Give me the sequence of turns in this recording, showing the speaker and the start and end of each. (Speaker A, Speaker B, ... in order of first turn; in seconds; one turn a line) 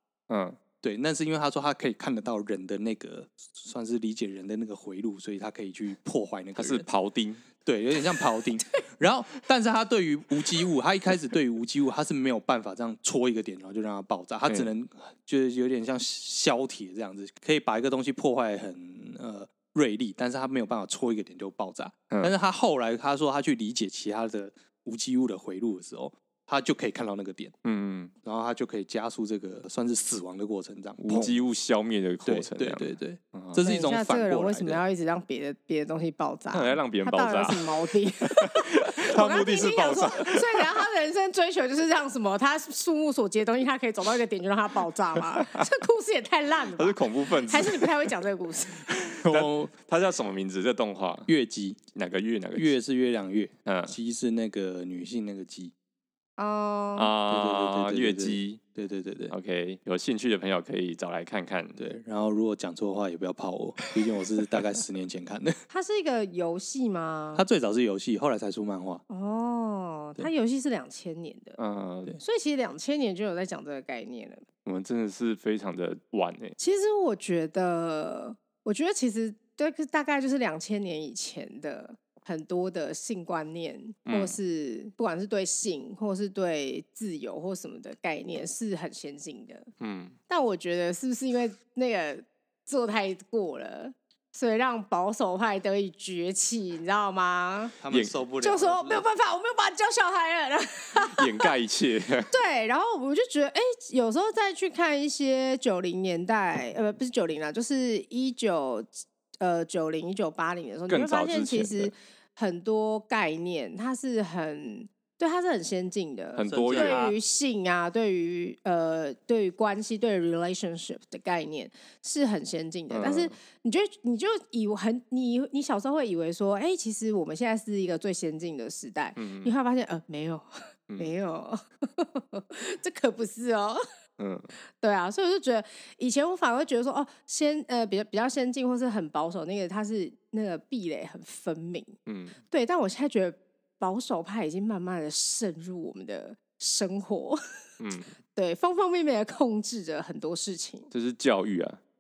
Speaker A: 0.3-0.6
Speaker B: 0.8-6.9
Speaker A: 6.5-7.4
Speaker B: 7.6-27.5
Speaker A: 27.6-28.1
Speaker B: 28.2-31.4
Speaker A: 31.0-33.6
Speaker B: 32.2-34.8
Speaker C: 33.6-48.9
Speaker A: 36.5-40.7
Speaker A: 45.4-45.6
Speaker A: 46.8-47.9
Speaker B: 49.1-49.7
Speaker A: 49.1-51.3
Speaker B: 51.3-51.8
Speaker A: 51.9-52.8
Speaker B: 52.5-55.7
Speaker A: 53.6-53.9
Speaker C: 56.4-57.1
Speaker A: 57.0-58.6
Speaker B: 57.3-59.3
Speaker A: 59.3-61.8
Speaker B: 61.8-65.6
Speaker C: 65.7-67.4
Speaker B: 67.3-69.0
Speaker C: 69.1-71.6
Speaker A: 71.6-72.2
Speaker C: 72.2-74.4
Speaker A: 74.6-76.5
Speaker C: 76.6-89.7
Speaker A: 84.0-84.4
Speaker A: 89.8-90.2
Speaker C: 90.3-97.8
Speaker B: 97.8-99.1
Speaker C: 98.4-101.5
Speaker A: 101.1-102.3
Speaker C: 102.3-108.9
Speaker C: 109.4-133.8
Speaker A: 110.9-111.9
Speaker A: 116.3-117.2
Speaker B: 116.5-117.1
Speaker A: 122.9-123.3
Speaker A: 129.2-129.5
Speaker A: 134.2-134.5
Speaker C: 134.8-141.9
Speaker A: 142.1-142.3
Speaker C: 142.5-147.4
Speaker A: 147.8-148.1
Speaker C: 148.3-150.9
Speaker A: 150.9-151.8